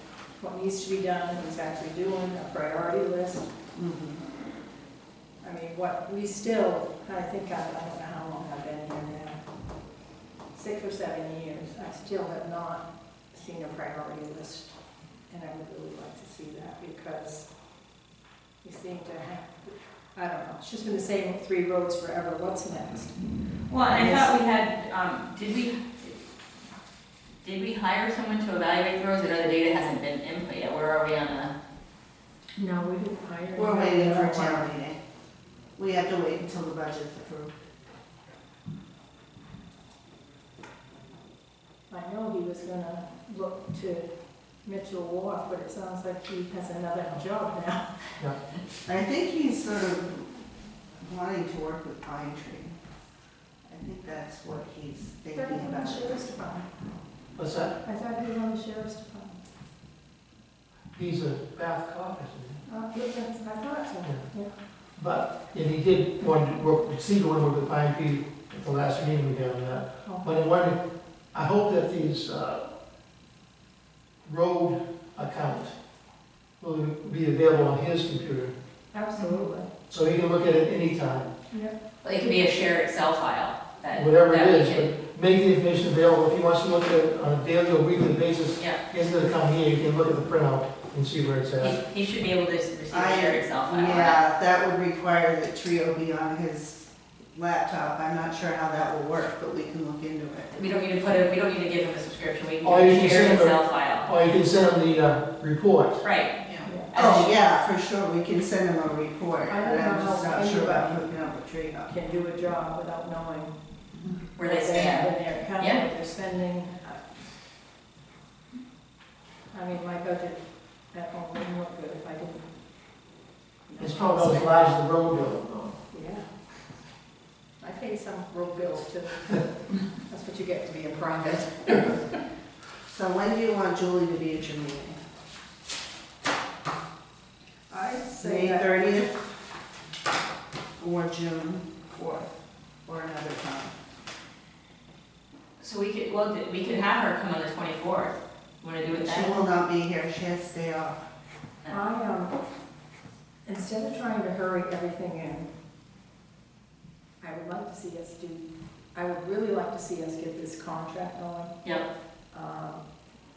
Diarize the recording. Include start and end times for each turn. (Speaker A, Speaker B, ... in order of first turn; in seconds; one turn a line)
Speaker A: 0.4-3.5
Speaker B: 3.8-4.2
Speaker A: 5.4-9.4
Speaker A: 10.5-14.8
Speaker A: 15.3-17.5
Speaker A: 18.6-23.2
Speaker C: 23.7-26.2
Speaker A: 23.8-24.3
Speaker C: 27.4-31.5
Speaker A: 32.6-34.7
Speaker B: 33.5-35.0
Speaker B: 35.8-37.5
Speaker A: 41.9-44.1
Speaker A: 44.6-48.2
Speaker B: 48.9-50.4
Speaker B: 51.0-52.8
Speaker B: 53.7-56.3
Speaker A: 55.4-56.7
Speaker D: 57.4-57.8
Speaker A: 57.8-59.4
Speaker D: 61.0-62.6
Speaker A: 62.7-64.5
Speaker D: 65.0-70.8
Speaker A: 70.0-70.3
Speaker D: 71.3-72.8
Speaker D: 74.2-75.8
Speaker D: 76.6-78.5
Speaker A: 78.9-79.7
Speaker D: 79.9-81.3
Speaker A: 81.5-81.8
Speaker C: 82.0-84.9
Speaker D: 83.9-91.8
Speaker C: 91.6-94.2
Speaker B: 92.9-100.5
Speaker C: 100.5-104.1
Speaker D: 102.6-106.0
Speaker C: 106.0-107.4
Speaker B: 106.6-111.9
Speaker A: 106.6-106.9
Speaker A: 109.5-111.0
Speaker A: 111.9-113.5
Speaker C: 114.4-115.8
Speaker A: 114.4-117.0
Speaker A: 119.5-122.5
Speaker A: 123.7-124.8
Speaker D: 123.8-125.8
Speaker A: 125.9-126.3
Speaker A: 127.6-132.2
Speaker B: 132.9-135.0
Speaker A: 137.7-139.0
Speaker B: 138.2-139.2
Speaker B: 140.8-142.3
Speaker B: 142.8-143.7
Speaker C: 145.6-149.4
Speaker B: 148.9-151.0
Speaker A: 151.7-152.3
Speaker A: 153.4-155.5
Speaker A: 157.2-162.8